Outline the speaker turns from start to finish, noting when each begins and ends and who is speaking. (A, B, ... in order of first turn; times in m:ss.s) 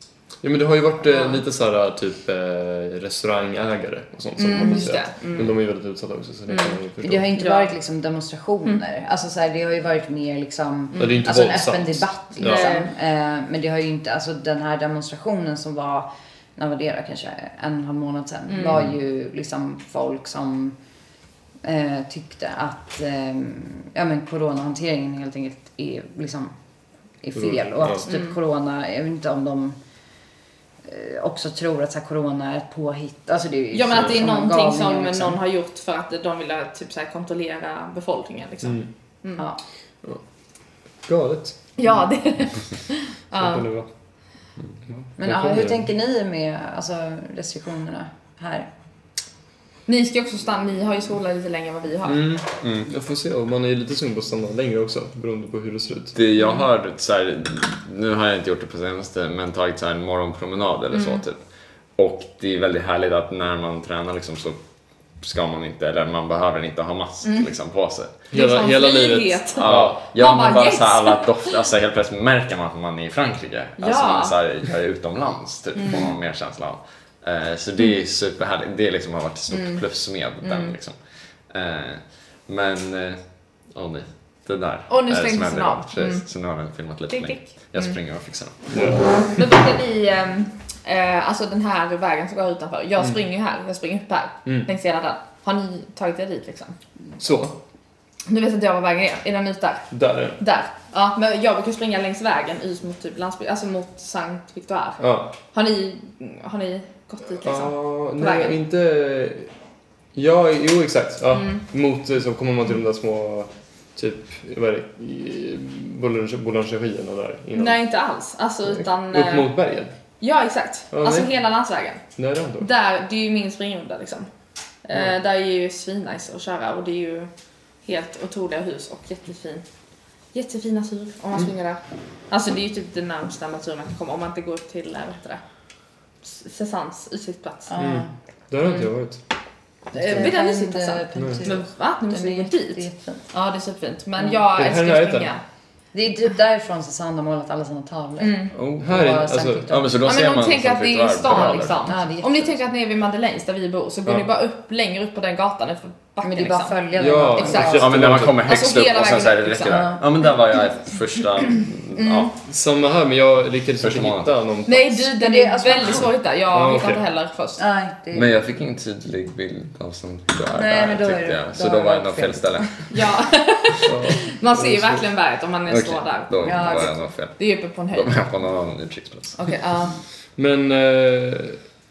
0:00.4-0:07.3 A
0:04.4-0:05.5 B
0:06.5-0:06.8 B
0:07.0-0:20.8 C
0:07.3-0:07.7 B
0:10.9-0:11.2 B
0:11.0-0:12.8 A
0:12.4-0:12.9 B
0:18.5-0:18.8 B
0:21.6-0:26.5 C
0:27.2-0:29.8 C
0:27.3-0:28.1 A
0:28.1-0:28.4 B
0:30.8-0:35.4 C
0:33.7-0:39.4 B
0:38.6-0:38.9 A
0:41.0-0:41.6 A
0:41.8-0:43.7 B
0:43.3-0:43.9 A
0:44.9-0:45.9 A
0:45.2-0:48.7 C
0:49.9-0:52.2 B
0:52.0-0:56.1 A
0:52.6-0:52.9 D
0:56.1-1:01.4 D
1:00.9-1:01.2 B
1:02.0-1:04.6 D
1:05.2-1:08.1 D
1:08.3-1:10.0 A
1:08.3-1:11.6 B
1:09.5-1:21.0 D
1:13.8-1:14.3 B
1:15.8-1:16.1 B
1:19.5-1:19.8 B
1:20.4-1:20.7 B
1:21.5-1:28.8 D
1:24.9-1:26.2 B
1:27.1-1:28.0 B
1:28.7-1:29.1 A
1:29.2-1:36.8 B
1:37.2-1:37.6 A
1:38.3-1:45.0 B
1:39.9-1:40.4 A
1:45.0-1:45.3 A
1:45.5-1:48.6 B
1:47.4-1:49.5 A
1:50.1-1:57.8 A
1:51.3-1:51.6 B
1:57.5-1:59.5 B
1:58.6-1:59.9 A
2:00.2-2:02.0 B
2:00.9-2:01.3 A
2:02.2-2:02.7 A
2:02.6-2:04.3 B
2:04.8-2:07.3 B
2:07.8-2:09.6 B
2:10.3-2:15.4 B
2:16.2-2:17.8 B
2:17.7-2:18.1 C
2:17.8-2:19.2 A
2:19.9-2:23.2 C
2:19.9-2:25.4 B
2:21.2-2:21.4 A
2:24.5-2:25.3 A
2:25.9-2:30.0 C
2:28.2-2:28.5 B
2:28.5-2:29.0 D
2:28.8-2:29.7 A
2:29.7-2:31.9 D
2:30.0-2:36.7 B
2:31.7-2:32.6 C
2:36.2-2:37.9 C
2:37.0-2:38.4 A
2:37.4-2:37.8 B
2:37.6-2:42.3 D
2:38.4-2:39.9 B
2:39.7-2:40.0 C
2:42.0-2:42.3 B
2:42.4-2:45.0 A
2:43.8-2:44.3 D
2:44.6-2:47.6 B
2:45.1-2:46.1 C
2:46.5-2:47.0 A
2:47.6-2:48.3 C
2:48.1-2:52.9 D
2:50.5-2:52.7 C
2:52.9-2:58.2 B
2:53.8-2:55.0 A
2:55.7-2:57.4 D
2:56.4-2:56.9 C
2:57.9-2:59.4 D
2:59.4-3:00.0 B
3:00.4-3:01.6 A